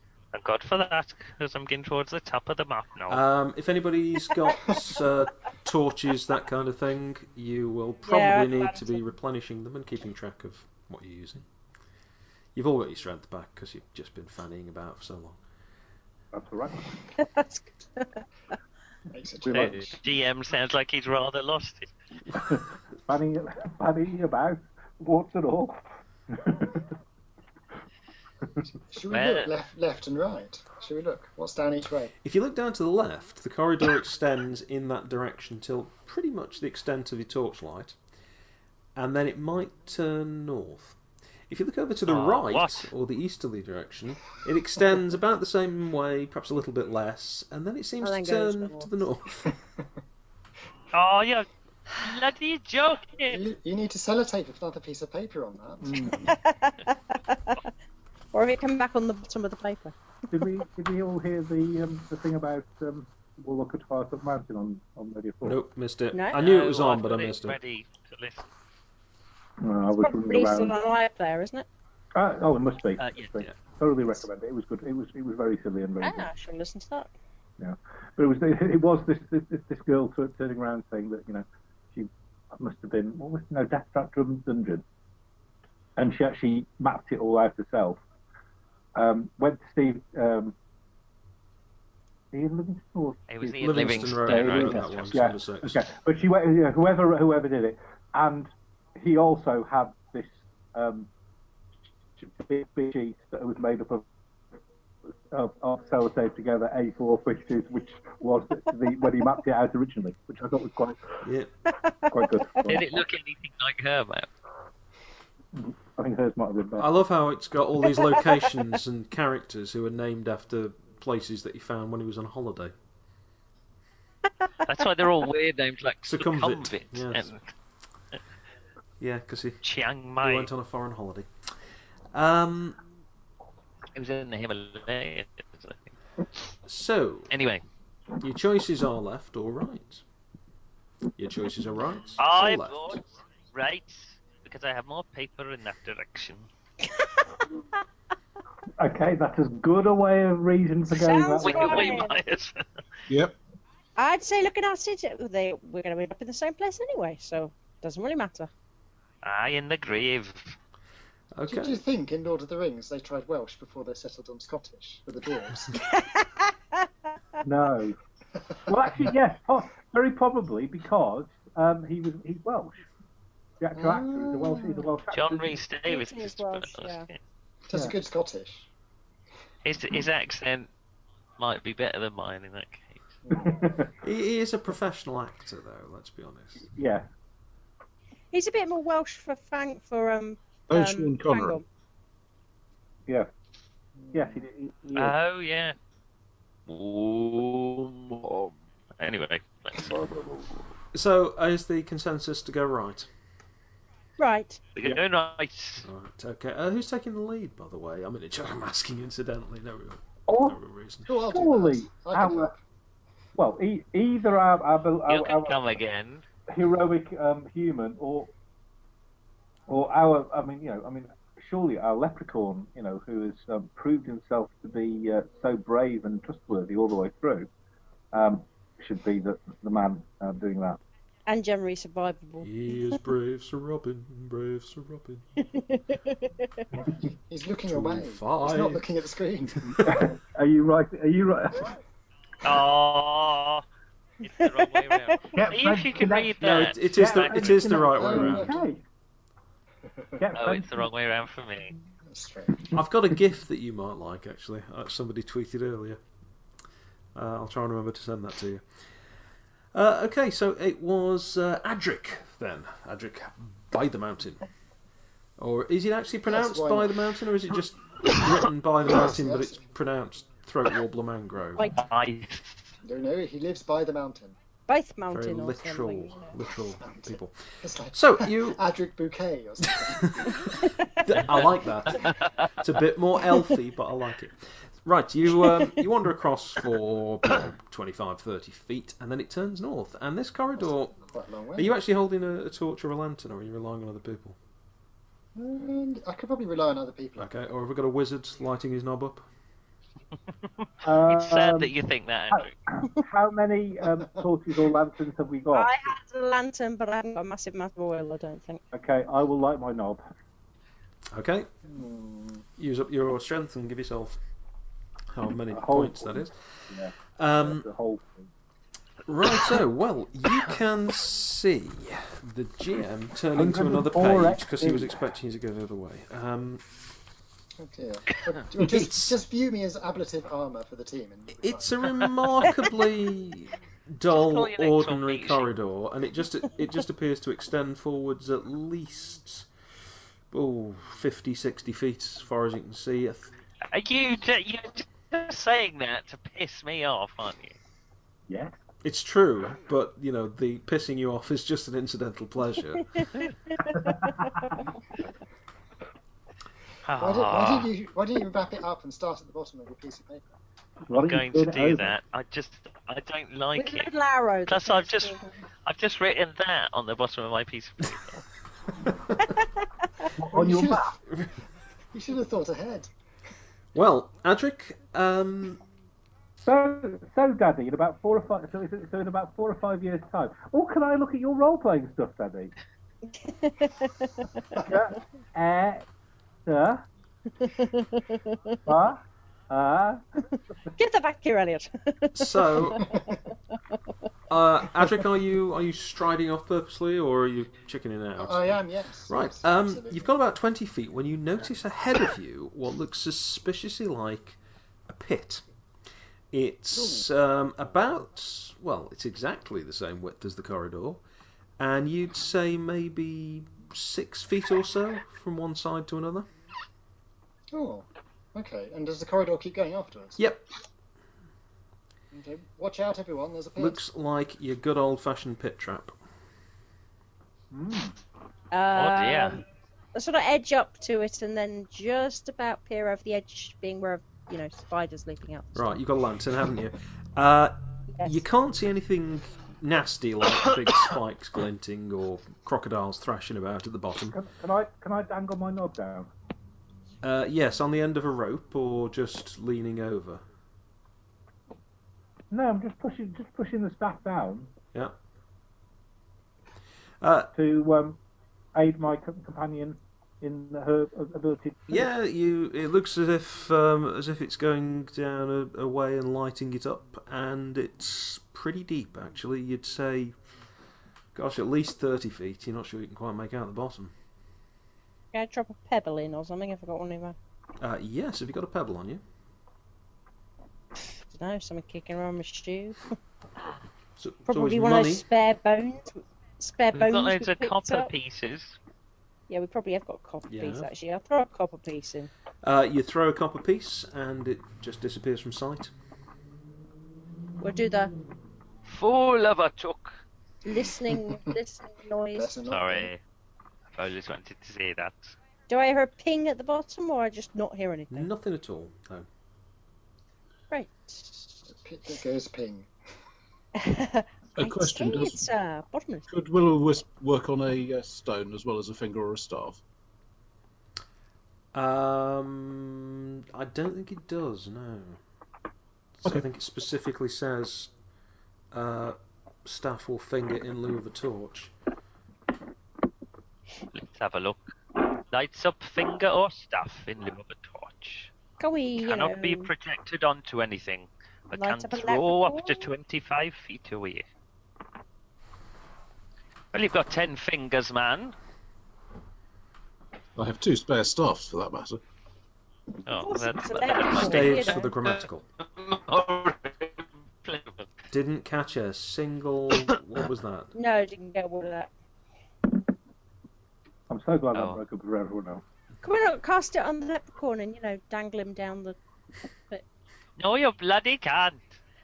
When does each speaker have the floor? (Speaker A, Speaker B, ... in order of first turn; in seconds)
Speaker A: 0.3-3.2, 19.5-21.9, 29.1-29.5, 42.1-42.9, 50.9-53.4, 66.3-68.5, 73.0-73.4, 93.3-95.2, 112.7-114.3, 124.7-127.4, 129.6-130.5, 133.9-136.5, 137.3-137.6, 142.2-146.5, 151.4-152.7, 159.2-160.6, 175.1-177.2, 179.6-180.7, 181.4-183.0, 194.9-195.8, 196.7-199.9, 204.8-205.8, 215.1-216.2, 242.4-243.6, 244.2-247.5, 250.3-251.8, 271.7-272.6, 281.9-282.3, 300.9-302.5, 334.1-335.5, 343.7-347.6, 356.8-357.7, 360.9-363.9, 364.5-368.2, 428.7-429.4, 486.7-488.6, 498.7-500.0, 502.5-503.0, 503.7-505.1, 533.7-534.5, 535.1-538.1, 538.8-544.0, 546.5-548.1, 552.9-557.7, 564.3-564.6, 570.2-571.5
Speaker B: 3.1-11.4, 12.5-15.4, 32.2-38.0, 39.0-41.0, 41.5-49.5, 65.4-67.5, 93.6-95.8, 111.2-111.5, 116.8-122.7, 126.0-127.3, 129.0-129.6, 130.2-131.3, 132.1-132.8, 136.7-137.3, 138.2-140.0, 141.2-143.0, 161.3-161.8, 184.0-186.7, 200.9-203.1, 205.8-211.1, 232.4-235.2, 237.7-238.8, 246.4-248.6, 252.7-256.0, 257.1-258.6, 259.7-264.5, 265.4-271.8, 275.1-278.6, 281.0-291.0, 291.6-294.4, 297.2-299.3, 311.1-311.5, 312.6-314.2, 315.1-316.4, 317.1-317.6, 319.1-326.6, 328.5-329.2, 331.4-339.5, 340.3-343.3, 348.8-352.9, 373.7-375.6, 392.1-392.8, 394.3-405.4, 406.3-411.0, 411.6-416.3, 420.2-420.4, 423.6-425.9, 435.5-444.1, 447.0-450.2, 457.0-457.3, 461.7-470.1, 471.1-473.9, 477.6-479.0, 484.0-485.0, 490.3-490.7, 492.4-495.7, 507.9-509.1, 521.5-525.0, 526.0-527.7, 528.5-531.5, 553.7-555.2, 557.9-560.5
Speaker C: 8.1-9.0, 17.2-18.2, 48.0-48.9, 56.1-57.6, 58.3-60.4, 66.1-66.4, 70.0-71.7, 76.0-77.1, 146.9-147.4, 150.9-152.2, 154.0-158.5, 165.8-166.9, 175.9-177.1, 188.3-191.6, 204.2-204.6, 231.3-232.9, 235.4-236.7, 244.4-245.2, 274.7-276.3, 305.5-308.6, 353.0-354.2, 363.6-365.3, 383.1-384.3, 387.4-388.6, 390.8-393.2, 428.5-429.4, 429.9-435.7, 437.9-438.2, 475.1-477.1, 481.1-482.9, 484.3-487.9, 489.3-492.1, 497.4-497.9, 500.4-502.4, 505.5-508.1, 510.5-511.4, 513.6-516.1, 538.4-539.5, 541.3-542.7, 552.9-554.7, 560.5-561.7, 565.8-568.8
Speaker D: 16.3-16.9, 19.4-19.9, 22.3-26.8, 55.8-56.2, 60.3-65.6, 69.6-70.7, 72.1-76.3, 77.6-84.8, 86.0-88.0, 89.0-90.5, 92.3-101.1, 102.2-104.0, 105.3-111.2, 112.1-113.0, 115.5-116.9, 148.8-152.0, 167.4-167.9, 168.7-172.8, 173.6-175.5, 183.3-183.9, 186.7-187.1, 194.1-195.2, 210.3-210.6, 211.2-212.5, 213.3-215.7, 216.5-218.3, 219.7-227.5, 228.1-230.8, 239.7-241.7, 245.3-248.8, 250.2-250.9, 300.8-301.7, 302.3-305.8, 308.7-310.0, 315.5-318.3, 323.3-325.0, 348.3-348.6, 353.6-354.6, 360.9-361.9, 370.1-371.0, 376.4-382.5, 384.6-385.8, 386.4-386.8, 388.6-390.0, 427.5-427.9, 444.1-446.1, 452.3-454.5, 457.3-458.0, 458.5-461.9, 563.9-565.4
Speaker E: 19.1-19.7, 28.9-32.1, 53.3-56.2, 161.5-165.8, 173.8-174.9, 177.7-178.7, 183.3-183.7, 194.0-194.4, 211.1-212.6, 236.9-240.1, 245.4-245.8, 247.9-248.7, 252.1-252.7, 266.2-267.0, 268.9-269.6, 272.8-274.4, 276.8-280.5, 290.6-291.7, 295.4-297.3, 311.7-312.4, 327.6-332.0, 357.0-360.2, 370.3-370.9, 371.9-372.9, 392.8-393.1, 398.2-400.1, 406.7-407.1, 417.5-420.2, 422.1-423.8, 502.1-502.9, 511.5-512.7
Speaker F: 153.1-153.3, 190.7-191.6, 514.4-515.2, 516.1-519.6, 550.2-551.8